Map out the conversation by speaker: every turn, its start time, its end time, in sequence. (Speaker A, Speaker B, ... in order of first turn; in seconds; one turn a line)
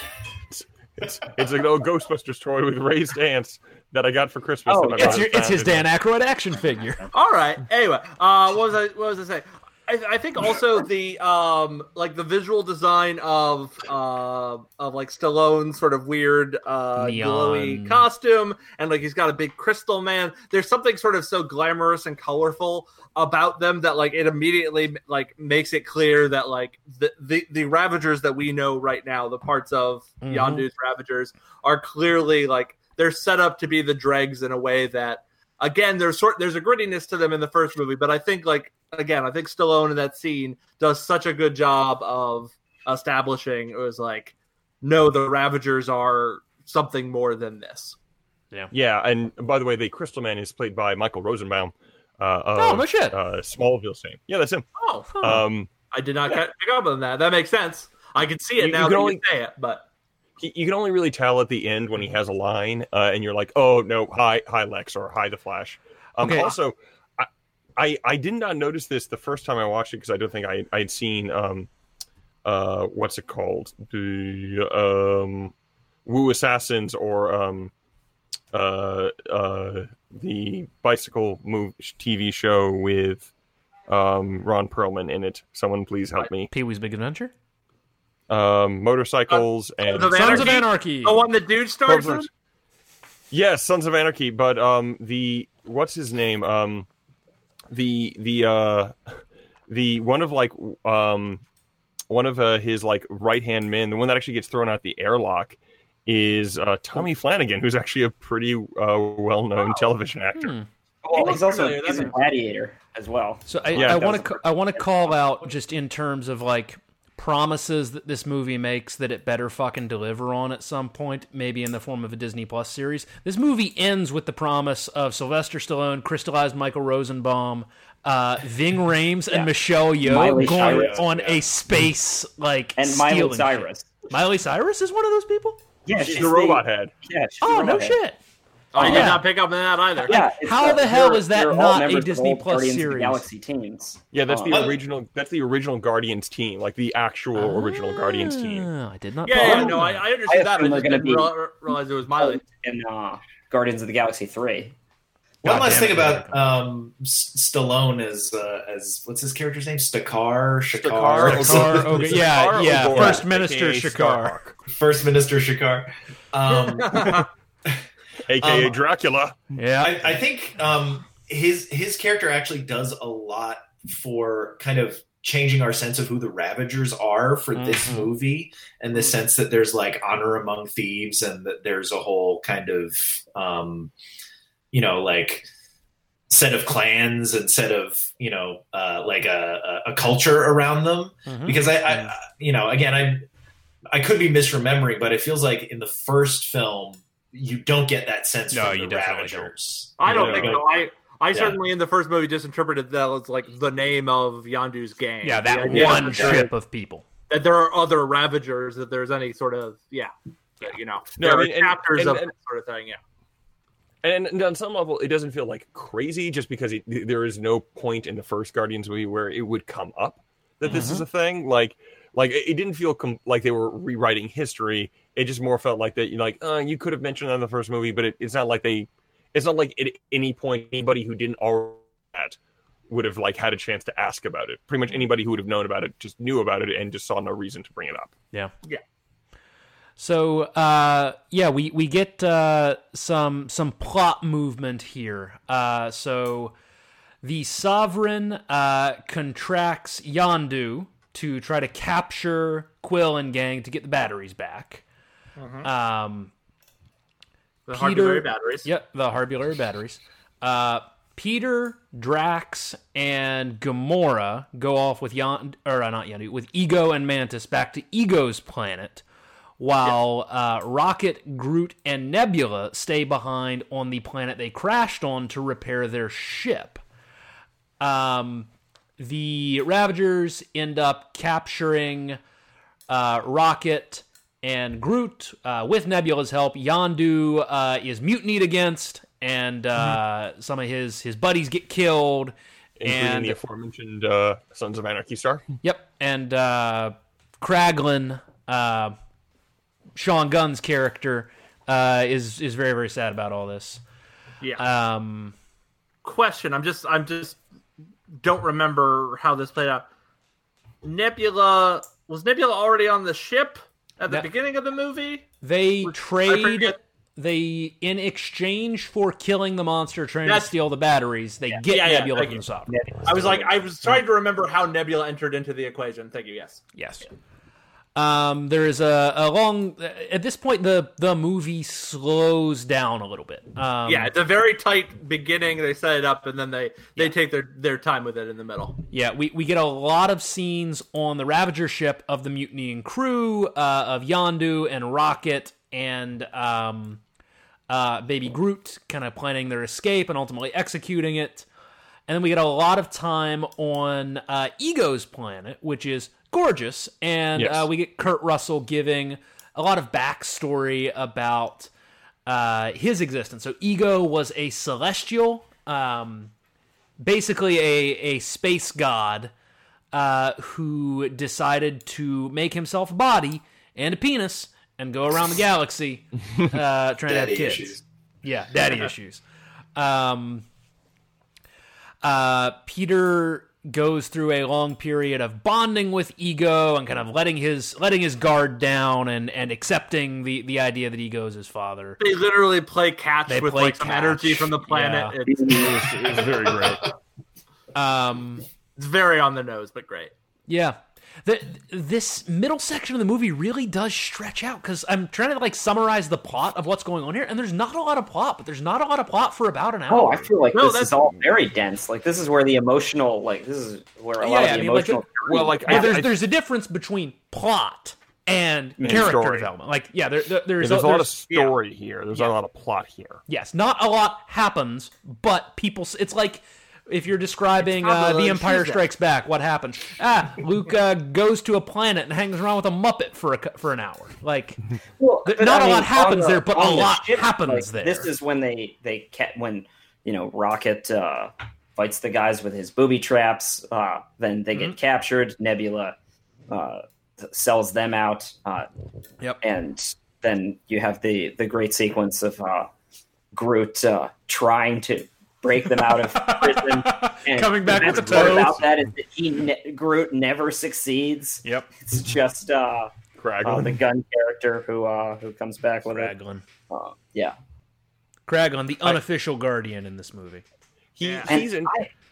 Speaker A: 0.5-5.9
Speaker B: 4.7-5.2
Speaker C: 5.0-7.0
Speaker D: 7.1-48.0
Speaker C: 17.0-18.1
Speaker C: 30.2-30.6
Speaker A: 48.7-54.6
Speaker C: 52.5-53.2
Speaker D: 54.8-55.1
Speaker C: 55.1-55.4
Speaker A: 55.2-55.7
Speaker D: 55.9-59.8
Speaker A: 58.6-59.2
Speaker A: 60.4-71.7
Speaker C: 66.2-66.5
Speaker A: 72.4-75.5
Speaker A: 76.0-77.7
Speaker A: 78.5-83.3
Speaker A: 83.9-86.5
Speaker C: 86.5-87.3
Speaker A: 88.3-90.5
Speaker D: 89.3-92.3
Speaker C: 90.0-91.2
Speaker A: 91.8-92.3
Speaker A: 93.3-96.9
Speaker A: 97.7-101.4
Speaker A: 102.1-110.5
Speaker C: 110.3-110.7
Speaker B: 111.0-114.8
Speaker D: 111.1-112.2
Speaker C: 113.5-135.6
Speaker A: 113.7-114.1
Speaker B: 129.3-131.0
Speaker E: 130.2-131.4
Speaker B: 132.8-133.9
Speaker B: 135.8-138.0
Speaker A: 135.9-136.9
Speaker C: 137.4-138.2
Speaker D: 138.7-140.2
Speaker B: 138.8-139.2
Speaker C: 138.8-139.2
Speaker B: 140.0-144.7
Speaker C: 140.1-143.2
Speaker A: 144.1-148.7
Speaker E: 144.5-144.8
Speaker C: 147.3-150.0
Speaker D: 149.2-152.4
Speaker B: 149.4-151.3
Speaker B: 152.2-154.7
Speaker E: 155.4-163.1
Speaker C: 155.4-156.4
Speaker A: 160.7-164.6
Speaker C: 161.2-164.4
Speaker E: 164.7-167.7
Speaker D: 166.7-167.2
Speaker A: 168.3-169.5
Speaker E: 168.4-168.8
Speaker C: 169.6-170.1
Speaker E: 169.8-183.9
Speaker C: 177.5-178.1
Speaker E: 184.7-185.4
Speaker E: 186.3-193.2
Speaker C: 191.2-192.1
Speaker E: 193.9-200.8
Speaker C: 198.5-199.5
Speaker D: 200.0-206.5
Speaker A: 200.1-200.6
Speaker E: 201.3-201.6
Speaker C: 205.2-207.0
Speaker A: 205.7-206.4
Speaker E: 205.8-206.4
Speaker D: 207.3-213.0
Speaker A: 211.2-212.3
Speaker A: 214.0-232.4
Speaker C: 220.6-221.0
Speaker A: 232.9-238.1
Speaker C: 240.0-246.5
Speaker C: 247.2-254.8
Speaker D: 255.4-255.7
Speaker C: 255.6-256.3
Speaker D: 257.7-258.7
Speaker C: 257.7-269.0
Speaker C: 269.6-276.8
Speaker C: 277.8-278.5
Speaker C: 279.0-282.2
Speaker C: 282.9-293.4
Speaker A: 292.8-295.4
Speaker C: 295.6-298.9
Speaker C: 299.9-303.8
Speaker C: 304.6-305.3
Speaker D: 306.0-307.4
Speaker D: 308.2-309.9
Speaker D: 310.8-315.3
Speaker C: 315.4-322.7
Speaker D: 315.8-316.8
Speaker D: 320.2-320.5
Speaker D: 321.7-322.4
Speaker B: 322.7-323.5
Speaker D: 323.0-326.6
Speaker C: 326.8-327.1
Speaker C: 327.9-334.1
Speaker D: 333.9-338.8
Speaker C: 338.9-347.0
Speaker C: 347.7-351.5
Speaker C: 352.1-361.7
Speaker A: 357.4-357.7
Speaker C: 362.2-366.3
Speaker C: 367.0-369.3
Speaker C: 369.9-379.2
Speaker E: 377.1-377.8
Speaker C: 379.8-380.4
Speaker C: 382.0-392.0
Speaker D: 392.0-395.7
Speaker C: 393.3-396.9
Speaker B: 395.5-395.7
Speaker C: 397.7-398.4
Speaker D: 398.8-400.1
Speaker C: 400.5-410.3
Speaker B: 409.9-415.9
Speaker D: 410.5-411.1
Speaker C: 414.2-415.1
Speaker A: 415.2-416.1
Speaker C: 415.6-421.1
Speaker A: 418.8-419.5
Speaker A: 420.6-423.2
Speaker D: 421.3-421.6
Speaker C: 423.3-434.6
Speaker D: 427.6-428.8
Speaker B: 435.0-445.9
Speaker C: 435.2-438.1
Speaker B: 446.5-448.7
Speaker B: 449.4-452.7
Speaker B: 453.3-462.9
Speaker C: 455.8-458.6
Speaker A: 457.8-458.6
Speaker C: 461.4-461.7
Speaker A: 463.2-463.8
Speaker B: 463.4-466.1
Speaker C: 465.9-466.4
Speaker B: 466.7-467.3
Speaker C: 468.3-470.4
Speaker A: 470.9-471.7
Speaker D: 471.0-471.4
Speaker B: 471.3-471.9